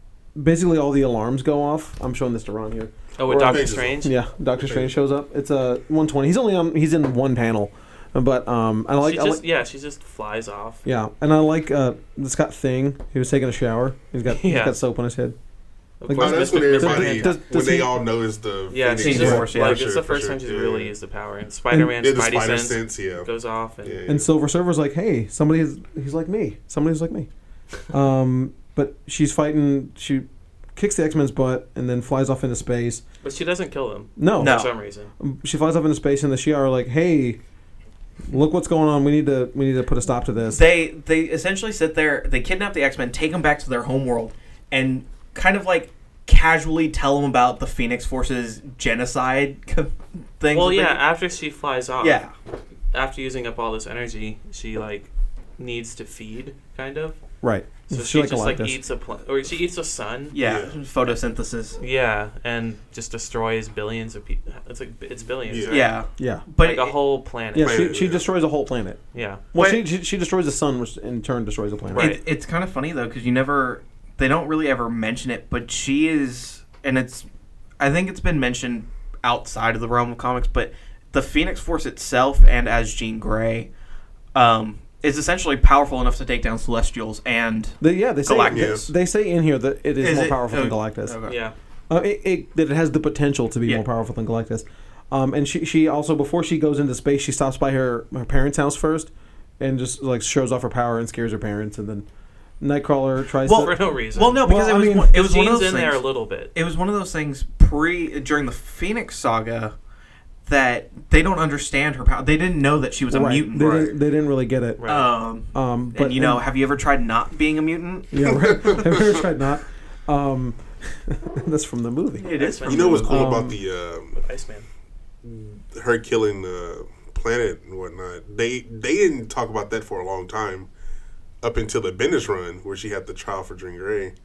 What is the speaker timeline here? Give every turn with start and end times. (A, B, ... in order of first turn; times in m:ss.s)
0:00.4-0:09.4 A
0:03.2-0:04.1 B
0:03.3-0:04.0 C
0:04.6-0:04.9 C
0:09.0-0:10.8 B
0:10.8-0:15.4 A
0:14.3-0:14.8 B
0:16.0-0:17.4 B
0:16.1-0:18.0 A
0:16.1-0:20.9 C
0:18.7-0:24.0 B
0:18.9-0:19.9 D
0:21.7-0:22.0 A
0:22.0-0:23.3 C
0:23.8-0:24.3 C
0:24.1-0:27.3 A
0:27.9-0:33.0 A
0:33.2-0:35.1 B
0:34.2-0:34.6 A
0:34.4-0:34.7 D
0:35.2-0:37.4 A
0:38.3-0:40.6 A
0:40.5-0:51.0 D
0:50.5-0:52.2 B
0:52.0-0:52.3 D
0:52.9-0:57.2 B
0:57.4-0:58.8 A
0:57.9-1:00.4 B
1:00.3-1:01.8 D
1:00.4-1:00.8 C
1:01.8-1:06.0 B
1:05.5-1:05.9 C
1:05.7-1:07.0 D
1:06.2-1:06.4 A
1:06.6-1:08.0 B
1:07.6-1:09.0 A
1:07.6-1:08.3 C
1:09.1-1:09.4 B
1:09.5-1:12.2 A
1:09.6-1:09.8 D
1:11.9-1:12.2 B
1:12.0-1:17.3 D
1:17.8-1:23.7 D
1:24.3-1:28.9 D
1:27.8-1:31.2 A
1:28.5-1:28.8 C
1:30.0-1:31.4 D
1:31.3-1:31.5 B
1:31.9-1:42.1 A
1:42.6-1:43.8 A
1:43.5-1:49.7 D
1:43.5-1:46.5 B
1:44.4-1:45.2 A
1:50.5-1:53.9 D
1:53.1-1:54.9 A
1:54.8-1:55.1 B
1:54.8-1:58.7 D
1:55.5-1:56.5 A
1:58.1-2:02.3 A
2:02.2-2:03.3 D
2:02.3-2:03.4 B
2:02.7-2:04.2 C
2:02.9-2:03.6 A
2:04.1-2:04.7 B
2:05.7-2:10.7 C
2:11.4-2:14.1 C